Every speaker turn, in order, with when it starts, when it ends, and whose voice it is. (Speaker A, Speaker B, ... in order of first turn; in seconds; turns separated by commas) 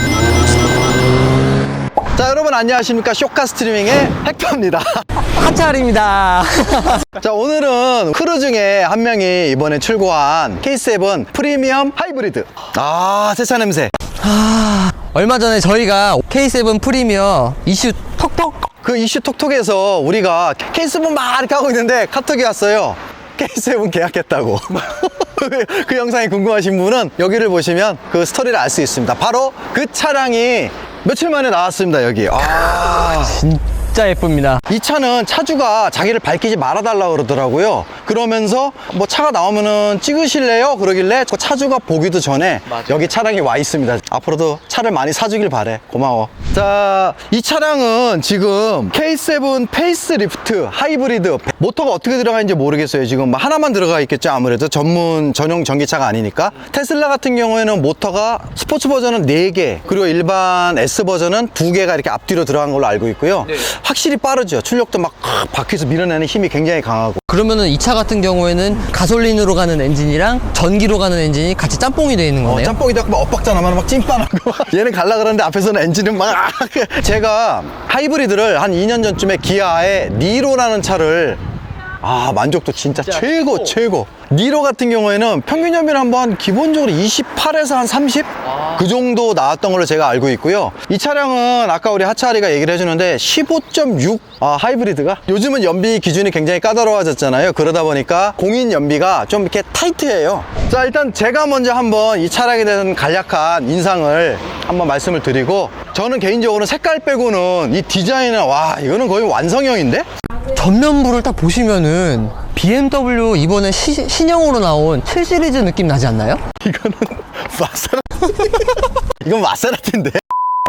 Speaker A: 2.1-5.0, Speaker B: 5.2-7.0, Speaker A: 7.2-13.9, Speaker B: 14.2-18.7, Speaker A: 18.8-33.4, Speaker B: 32.4-34.6, Speaker A: 34.7-67.2, Speaker B: 67.3-72.8, Speaker A: 72.4-81.4, Speaker A: 82.0-110.1, Speaker B: 110.5-116.4, Speaker A: 116.6-120.2